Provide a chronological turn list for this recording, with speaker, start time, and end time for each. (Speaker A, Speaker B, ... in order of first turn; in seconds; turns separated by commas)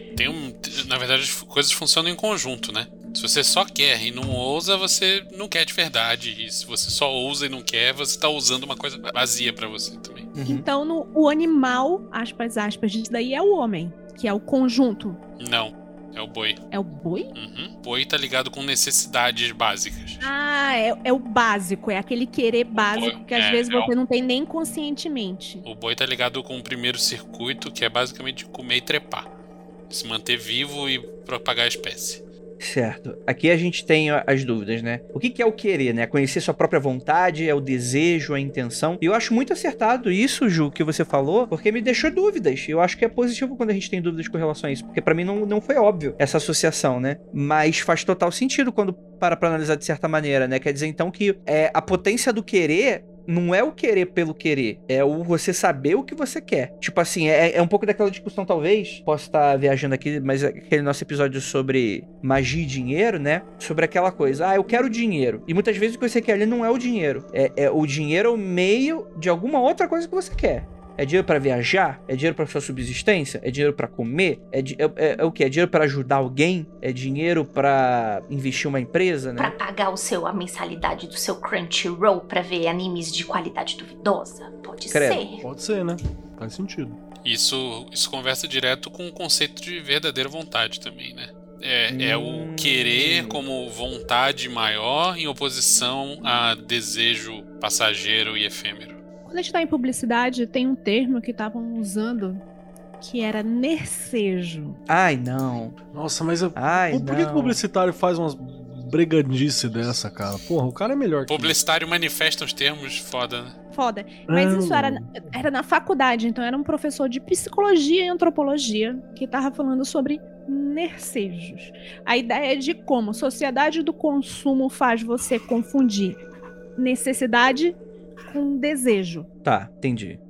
Speaker A: 0.1-10.3, Speaker B: 10.3-10.7, Speaker C: 10.5-15.2, Speaker A: 15.4-16.6, Speaker C: 16.7-17.3, Speaker A: 17.4-20.3, Speaker C: 20.2-25.6, Speaker A: 22.8-23.9, Speaker A: 25.6-29.3, Speaker A: 29.9-32.2, Speaker B: 32.6-79.5, Speaker D: 79.4-85.4, Speaker B: 84.9-85.2, Speaker E: 85.4-87.0, Speaker A: 87.2-99.0, Speaker B: 91.9-93.4, Speaker C: 99.3-102.4, Speaker C: 103.0-104.8, Speaker B: 104.9-105.8, Speaker E: 105.9-111.6, Speaker B: 106.6-107.6, Speaker A: 111.3-113.6, Speaker C: 113.7-126.2, Speaker E: 114.3-115.3, Speaker C: 126.8-127.8, Speaker C: 128.3-129.3, Speaker B: 129.4-130.2